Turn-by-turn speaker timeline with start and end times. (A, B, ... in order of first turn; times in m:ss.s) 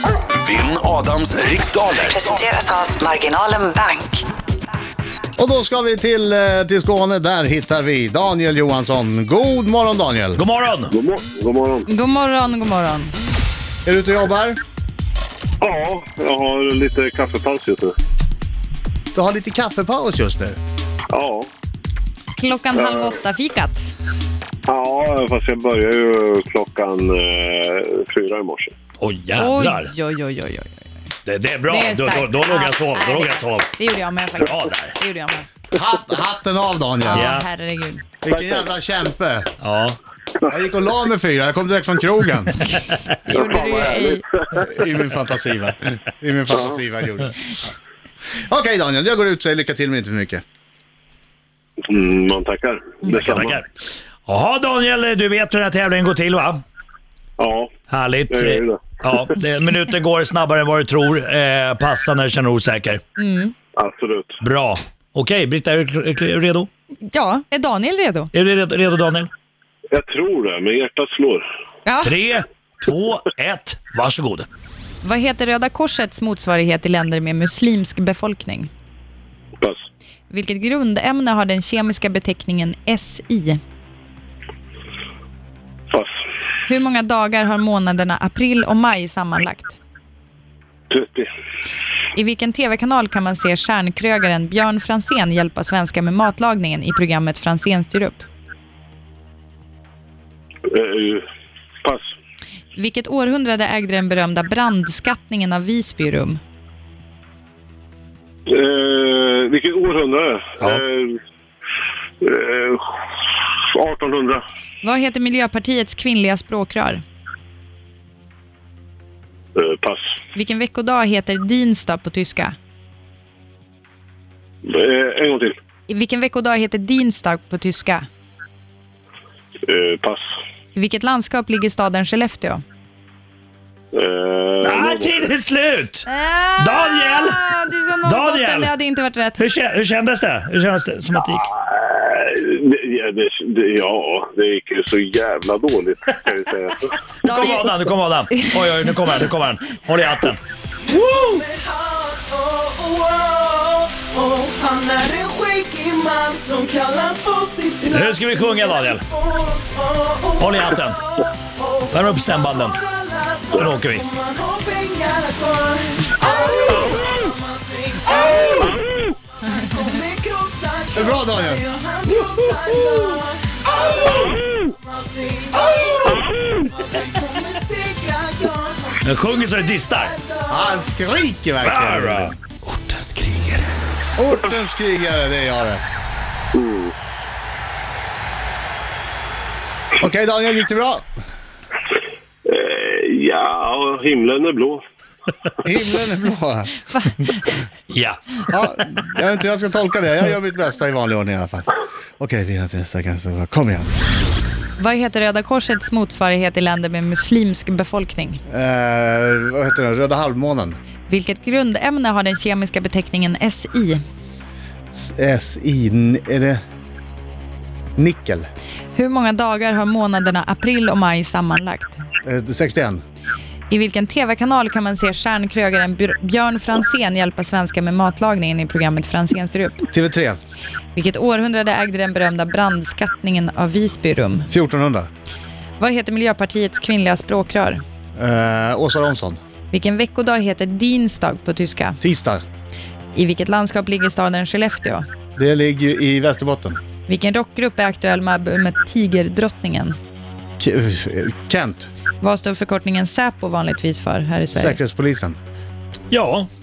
0:00.4-0:02.4 A
0:02.0-0:04.2 B
0:05.4-0:10.4 C
0:10.4-0:10.9 D
0:10.9-0:11.9 E
0:11.9-0:13.1 F
0:13.8-0:14.6 C
0:15.6-0:17.9 E
0:19.1-0:20.6 C
0:21.1-0:21.5 E
0:22.4-0:23.9 F
0:22.7-0:23.2 E
0:24.7-0:28.7 E
0:29.0-0:29.9 D
0:29.4-0:30.9 F
0:31.2-0:33.7 D
0:31.7-0:35.5 F
0:34.4-0:35.0 D
0:35.7-0:37.4 C
0:37.0-0:38.0 F
0:37.1-0:37.5 D
0:38.2-0:39.5 C
0:39.6-0:40.0 D
0:40.5-0:42.6 C
0:43.3-0:44.2 F
0:43.3-0:44.8 E
0:44.6-0:47.4 C
0:48.4-0:50.4 C
0:51.8-0:53.6 E
0:53.0-0:56.6 D
0:57.4-0:57.7 E
0:57.9-1:03.0 D
0:58.3-0:59.1 E
1:03.2-1:03.5 F
1:03.8-1:04.4 E
1:04.4-1:06.7 D
1:07.0-1:08.3 F
1:08.3-1:09.3 D
1:09.9-1:11.4 E
1:11.8-1:12.1 F
1:12.0-1:14.5 D
1:15.0-1:18.7 F
1:20.3-1:23.6 F
1:26.6-1:29.8 F
1:30.9-1:31.3 E
1:32.1-1:38.2 F
1:40.7-1:41.2 E
1:41.8-1:42.1 E
1:42.7-1:46.4 F
1:48.5-1:51.2 E
1:52.2-1:54.4 E
1:54.8-1:57.0 F
1:59.6-2:00.0 E
2:00.3-2:02.5 F
2:04.6-2:05.6 E
2:05.9-2:08.0 F
2:09.6-2:10.2 E
2:10.7-2:12.6 F
2:13.9-2:15.3 E
2:14.6-2:18.7 D
2:16.0-2:19.4 F
2:19.4-2:21.5 D
2:21.2-2:26.9 E
2:27.2-2:27.7 F
2:27.2-2:30.4 D
2:30.9-2:56.0 G
2:37.9-2:39.0 D
2:40.4-2:41.0 D
2:41.9-2:42.8 D
2:43.5-2:44.1 D
2:46.2-2:46.8 C
2:48.6-2:49.1 E
2:50.9-2:51.6 C
2:54.1-2:54.6 E
2:56.0-2:56.8 E
2:56.6-2:59.2 G
2:59.0-3:00.2 D
3:00.0-3:00.8 G
3:00.5-3:02.4 C
3:01.6-3:02.4 D
3:02.9-3:03.6 A
3:04.2-3:05.8 C
3:06.5-3:06.9 E
3:10.0-3:11.1 C
3:12.4-3:14.8 E
3:15.6-3:16.7 C
3:17.9-3:18.2 D
3:18.5-3:23.9 C
3:24.8-3:28.4 F
3:28.5-3:30.8 C
3:31.1-3:34.0 F
3:34.9-3:36.6 C
3:38.0-3:38.5 C
3:38.9-3:42.0 F
3:42.2-3:43.0 C
3:43.7-3:49.8 F
3:49.9-3:50.4 C
3:50.9-3:54.5 F
3:54.5-3:55.1 C
3:55.8-3:57.8 F
3:58.2-3:59.4 C
3:59.7-4:02.0 F
4:02.0-4:02.4 C
4:03.1-4:05.0 F
4:05.4-4:06.8 C
4:07.1-4:10.0 F
4:10.6-4:11.9 C
4:12.2-4:14.8 F
4:14.5-4:15.4 C
4:16.1-4:16.5 D